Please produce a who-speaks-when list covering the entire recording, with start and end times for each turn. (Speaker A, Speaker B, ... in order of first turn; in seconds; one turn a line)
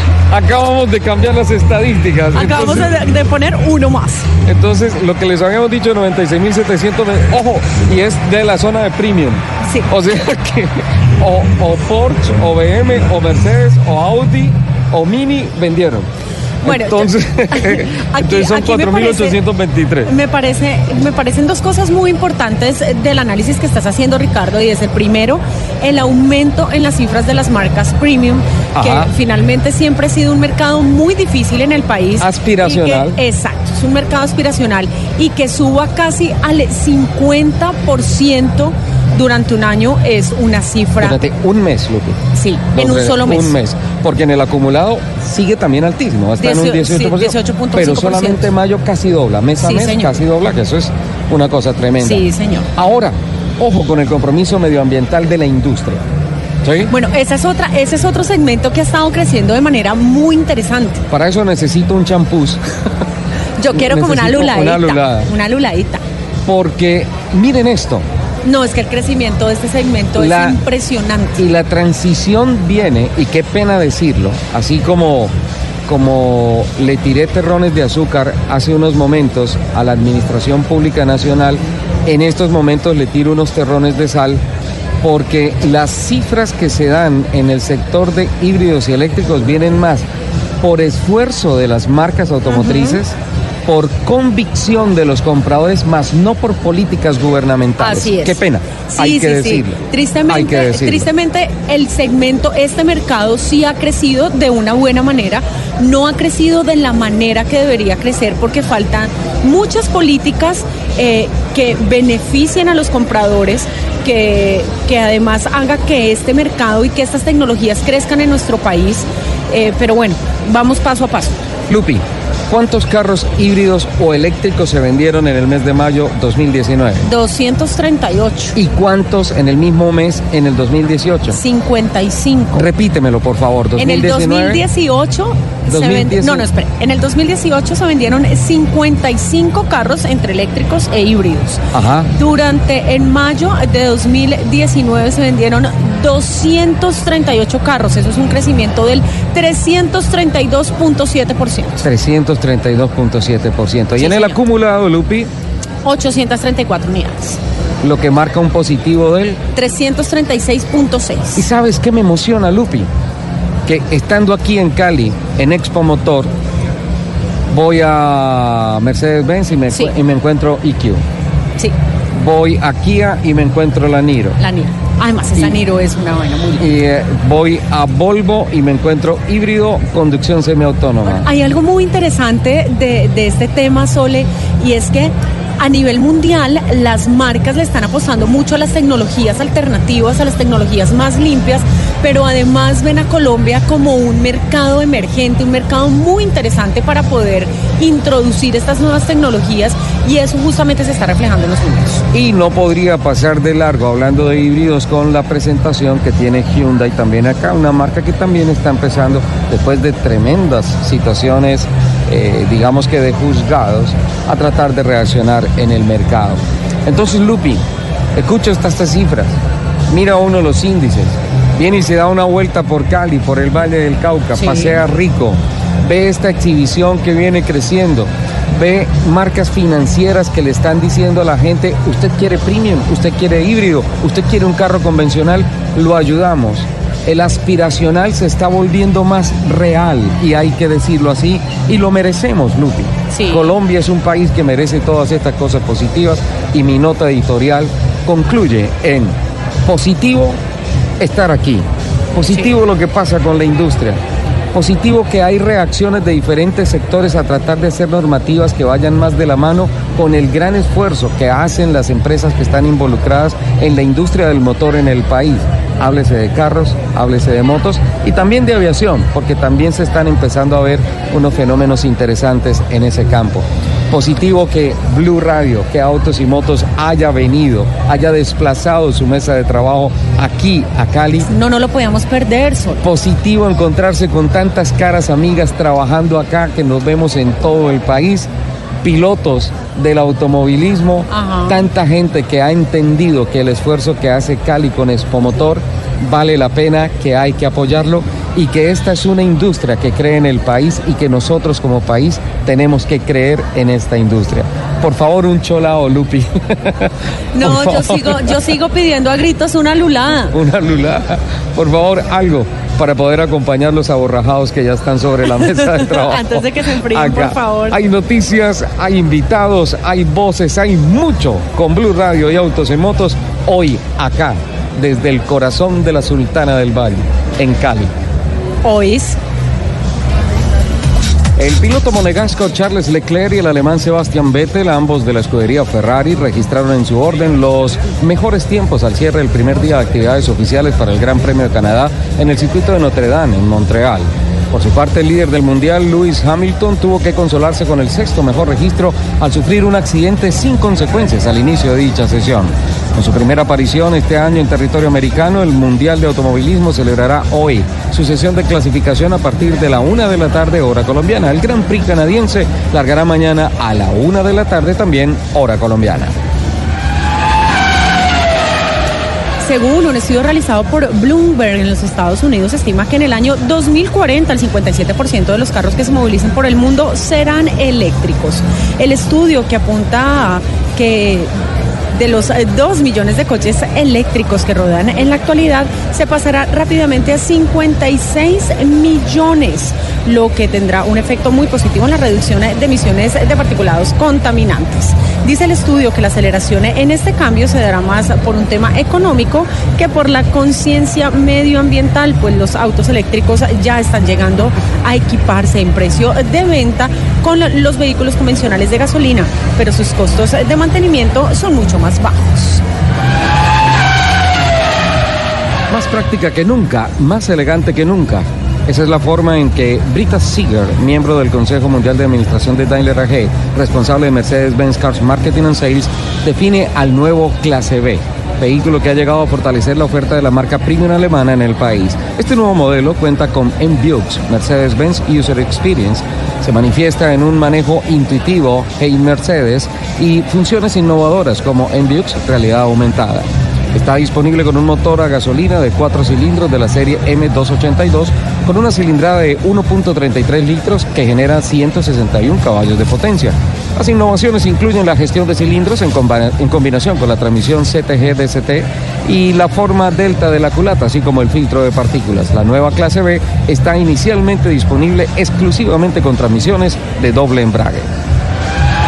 Speaker A: 0.3-3.0
Speaker B: 2.3-4.3
Speaker A: 4.5-16.1
Speaker B: 9.6-9.9
Speaker A: 16.6-20.1
Speaker B: 16.6-19.4
Speaker B: 20.1-41.2
Speaker A: 28.7-29.1
Speaker A: 32.2-33.2
Speaker A: 41.0-56.0
Speaker B: 42.3-43.6
Speaker B: 46.4-48.5
Speaker B: 49.6-50.2
Speaker B: 52.0-52.7
Speaker A: 56.6-56.9
Speaker B: 56.9-61.0
Speaker A: 61.1-62.6
Speaker B: 63.6-66.0
Speaker A: 63.7-65.3
Speaker A: 66.5-68.1
Speaker B: 68.4-71.5
Speaker A: 70.2-70.6
Speaker A: 71.4-75.3
Speaker A: 75.9-84.4
Speaker A: 85.0-90.1
Speaker A: 90.6-101.1
Speaker B: 92.5-93.0
Speaker B: 97.8-121.4
Speaker A: 121.7-127.1
Speaker B: 127.0-128.6
Speaker A: 128.6-131.4
Speaker B: 131.3-132.7
Speaker A: 132.6-134.7
Speaker B: 133.8-141.6
Speaker A: 135.7-136.5
Speaker A: 141.7-142.1
Speaker B: 142.2-151.8
Speaker A: 151.8-155.3
Speaker B: 154.0-154.4
Speaker B: 155.8-157.4
Speaker A: 157.8-159.4
Speaker B: 159.6-161.4
Speaker A: 161.4-162.9
Speaker A: 163.7-166.3
Speaker A: 167.5-171.0
Speaker A: 172.1-174.4
Speaker B: 174.4-176.7
Speaker A: 176.6-181.3
Speaker B: 181.1-202.0
Speaker A: 202.1-217.6
Speaker A: 218.2-250.4
Speaker B: 224.4-224.8
Speaker B: 243.1-243.5
Speaker A: 251.0-254.0
Speaker B: 252.3-252.6
Speaker A: 254.5-281.3
Speaker B: 281.3-282.8
Speaker A: 282.8-288.3
Speaker A: 288.8-308.4
Speaker B: 291.1-291.6
Speaker B: 307.3-310.3
Speaker A: 310.3-327.9
Speaker B: 315.4-317.8
Speaker B: 328.6-329.2
Speaker A: 331.4-366.1
Speaker B: 369.4-381.3
Speaker B: 381.9-412.6
Speaker A: 415.7-467.9